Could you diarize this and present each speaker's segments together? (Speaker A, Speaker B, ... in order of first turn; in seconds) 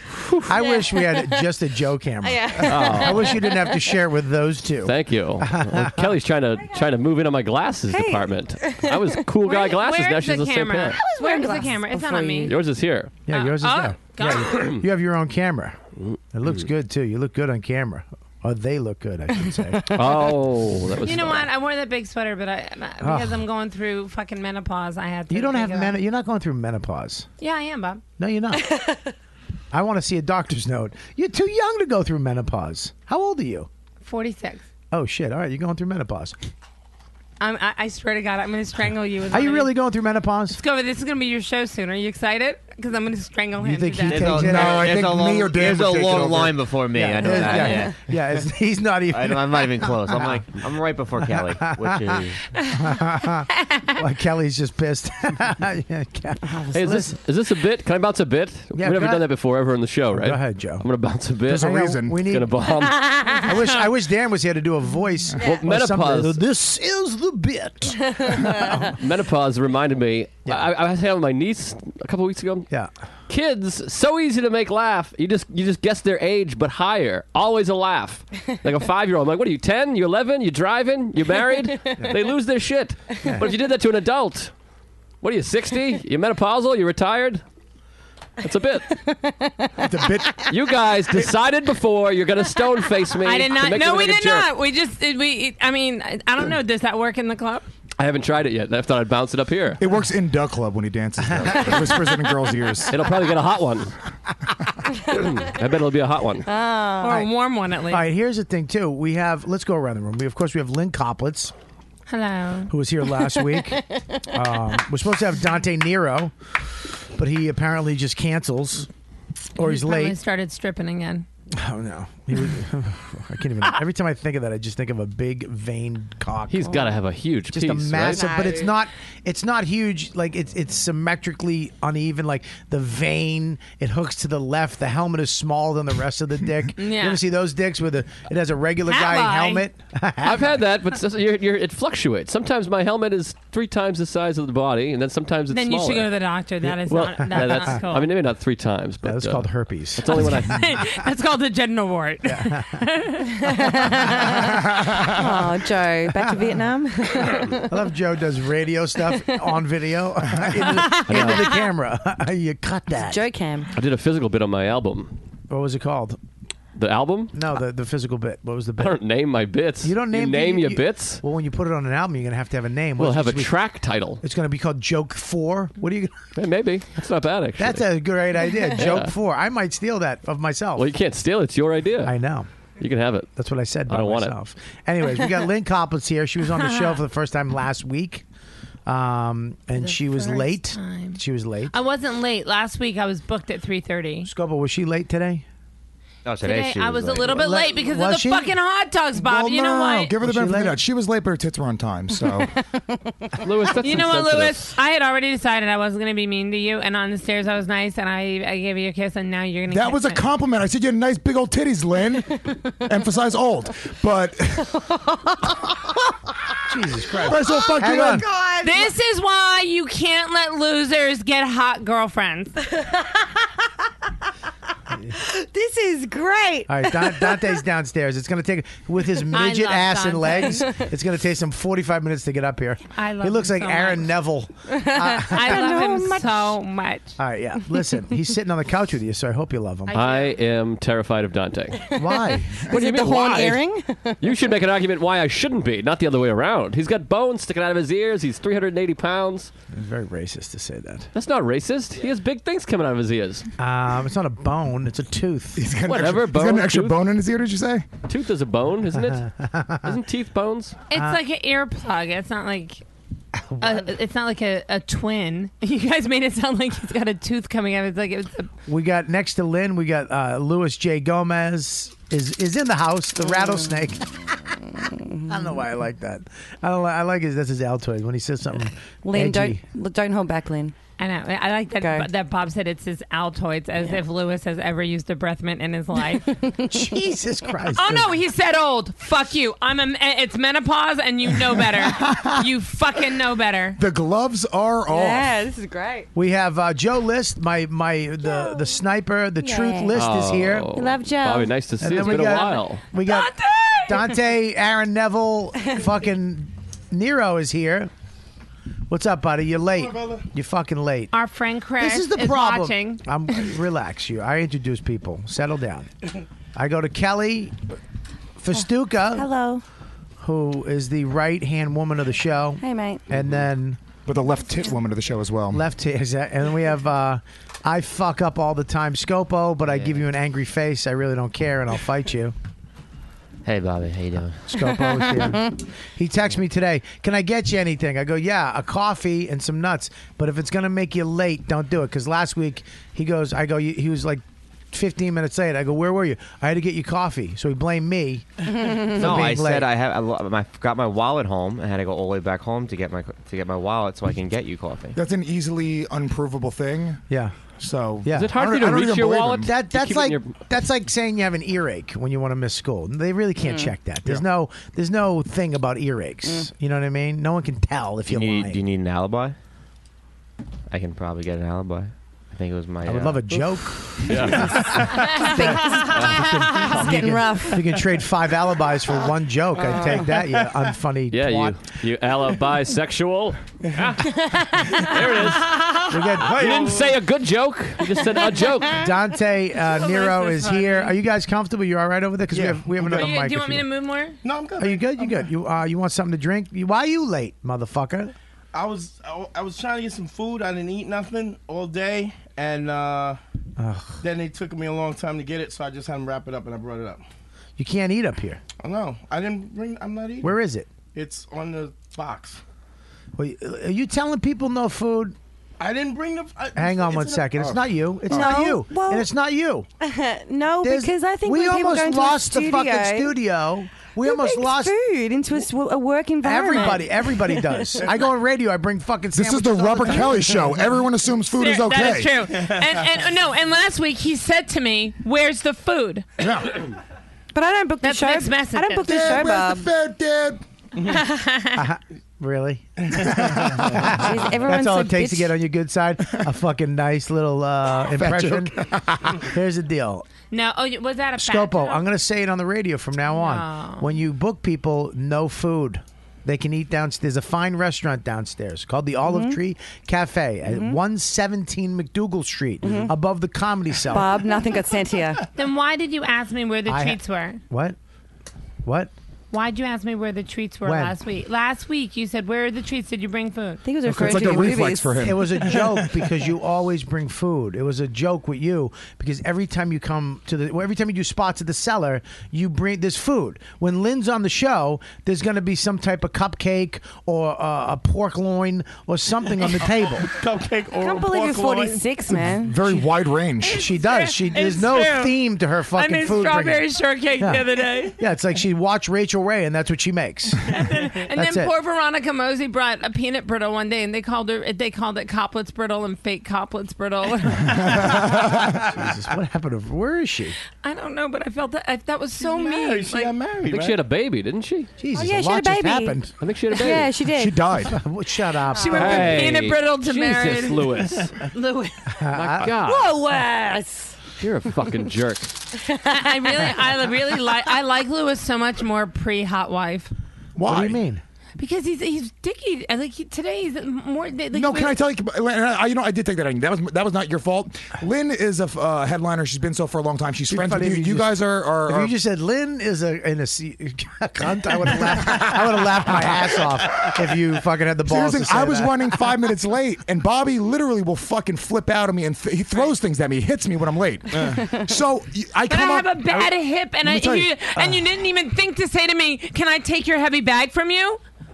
Speaker A: 0.1-0.6, 2.6-3.5, 4.8-11.0, 12.5-13.1, 14.6-14.8, 16.0-16.5, 19.9-21.5, 56.7-63.6, 65.4-66.4, 68.7-72.7, 73.3-84.5, 85.2-87.4, 88.4-89.0, 90.4-94.5, 98.0-99.8, 102.9-103.9, 105.1-106.5, 126.5-128.3, 140.2-146.1, 146.9-150.8, 160.9-161.5, 163.7-165.1, 166.8-167.3, 168.8-171.2, 173.0-174.2, 176.4-177.9, 178.7-179.1, 180.8-182.2, 182.8-183.3, 183.9-184.3, 203.4-204.7, 239.9-241.9, 242.7-243.6, 244.2-249.5, 251.2-253.5, 255.8-257.0, 258.1-260.8, 299.9-302.8, 358.1-360.4, 374.0-374.9, 375.9-376.3, 381.1-388.9, 513.5-514.7, 516.2-516.9, 518.7-521.1, 522.1-523.0, 524.2-525.4
Speaker B: 0.5-6.1, 13.3-15.8, 16.3-20.2, 23.0-23.4, 25.3-27.3, 28.2-28.7, 29.7-33.7, 34.9-36.4, 39.3-40.6, 43.6-44.9, 46.9-57.2, 58.8-59.3, 60.1-60.9, 61.5-62.7, 63.4-69.0, 107.9-111.5, 112.7-116.3, 117.2-118.9, 119.6-120.2, 121.5-126.9, 127.5-140.5, 147.3-147.6, 149.0-150.5, 152.2-152.9, 156.1-156.6, 157.3-163.2, 165.5-166.2, 167.3-169.0, 169.8-173.6, 174.2-176.2, 177.6-180.9, 182.0-182.5, 183.4-188.2, 188.9-191.7, 194.2-195.4, 197.2-198.5, 200.2-200.8, 216.7-218.3, 226.7-235.7, 237.2-240.0, 241.9-242.7, 249.7-251.1, 253.6-255.7, 259.1-259.9, 260.9-261.2, 263.5-263.9, 268.7-274.6, 275.3-279.6, 286.7-288.2, 291.9-292.4, 296.1-300.7, 301.8-307.9, 308.9-311.1, 311.8-315.9, 316.6-317.6, 318.4-319.3, 320.2-323.8, 325.5-332.4, 334.4-349.7, 357.1-357.4, 358.0-358.3, 359.4-368.6, 372.9-381.6, 385.9-386.4, 388.7-393.7, 394.6-398.1, 403.6-404.0, 407.6-408.4, 410.2-410.7, 413.2-415.2, 416.6-419.7, 420.6-424.8, 426.2-430.5, 441.5-448.5, 449.1-450.1, 451.2-464.1, 466.7-467.8, 468.6-468.9, 470.6-471.0, 473.9-490.1, 493.5-497.5, 498.0-501.5, 507.7-510.4, 514.8-516.1, 517.6-519.4, 522.0-522.5, 530.4-531.0, 540.3-549.0
Speaker C: 2.2-3.7, 7.9-9.1, 10.9-12.6, 106.5-107.2, 128.1-128.8, 153.7-154.2, 155.0-157.7, 159.1-159.4, 163.0-163.7, 225.2-227.5, 234.7-236.6, 242.5-244.2, 279.0-280.7, 281.8-282.1, 294.9-296.1, 298.3-298.6, 299.4-300.0, 300.7-301.6, 319.1-319.6, 322.6-323.0, 375.1-376.1, 376.7-377.7, 379.6-380.0, 418.1-419.1, 419.8-423.1, 424.0-427.7, 437.3-439.7, 443.9-445.3, 459.1-459.4, 460.5-460.8, 462.6-462.9, 463.9-465.2, 473.6-475.1, 490.8-492.6, 514.9-517.6, 518.7-519.0, 522.6-524.0, 525.6-526.6
Speaker D: 9.4-12.6, 13.3-14.7, 21.0-26.0, 27.4-28.0, 34.0-34.7, 37.4-39.7, 40.6-44.4, 52.6-53.0, 53.5-54.0, 93.2-97.7, 107.0-108.0, 112.1-112.7, 119.6-121.3, 136.8-137.2, 138.9-139.7, 145.5-148.1, 150.1-154.4, 160.6-161.4, 186.6-187.0, 189.7-194.3, 196.4-200.1, 203.8-210.2, 218.6-222.6, 229.3-230.7, 233.0-234.1, 235.2-237.2, 239.9-240.4, 260.9-262.8, 263.6-268.5, 281.0-286.3, 287.8-293.8, 303.1-303.9, 311.1-313.0, 375.2-375.9, 389.6-391.0, 392.9-394.2, 431.4-436.1, 437.8-438.9, 440.8-441.7, 450.3-451.9, 453.1-453.9, 465.4-467.4, 469.3-473.6, 493.4-495.2, 495.7-498.0, 500.5-507.9, 510.6-513.2, 518.5-520.7, 521.3-521.7, 525.9-529.9, 531.4-534.8, 555.5-561.0
Speaker E: 44.1-48.0, 49.1-52.4, 196.2-197.5, 329.6-330.0, 333.4-334.5, 348.9-355.0, 368.1-369.4, 370.7-373.4
Speaker F: 44.2-46.6, 47.2-47.7, 61.5-62.2, 89.8-90.5, 99.8-103.0, 154.9-155.2, 199.2-202.5, 209.7-214.8, 217.2-218.3, 255.6-257.9, 293.8-295.4, 324.1-325.6, 354.9-357.0, 357.6-359.5, 418.1-418.4, 429.1-432.1, 436.2-436.6, 438.8-440.4, 443.0-444.1, 447.9-449.2, 473.8-475.5, 492.1-493.7, 507.7-508.7, 517.1-517.8, 530.4-530.8, 534.3-541.9, 545.0-546.1, 547.9-557.7
Speaker G: 309.8-310.2, 386.2-387.0, 392.3-393.1, 394.2-395.2, 398.5-403.2, 404.0-407.0, 408.6-410.3, 410.9-412.4, 415.6-417.6, 490.0-491.9, 512.2-513.8, 554.1-554.4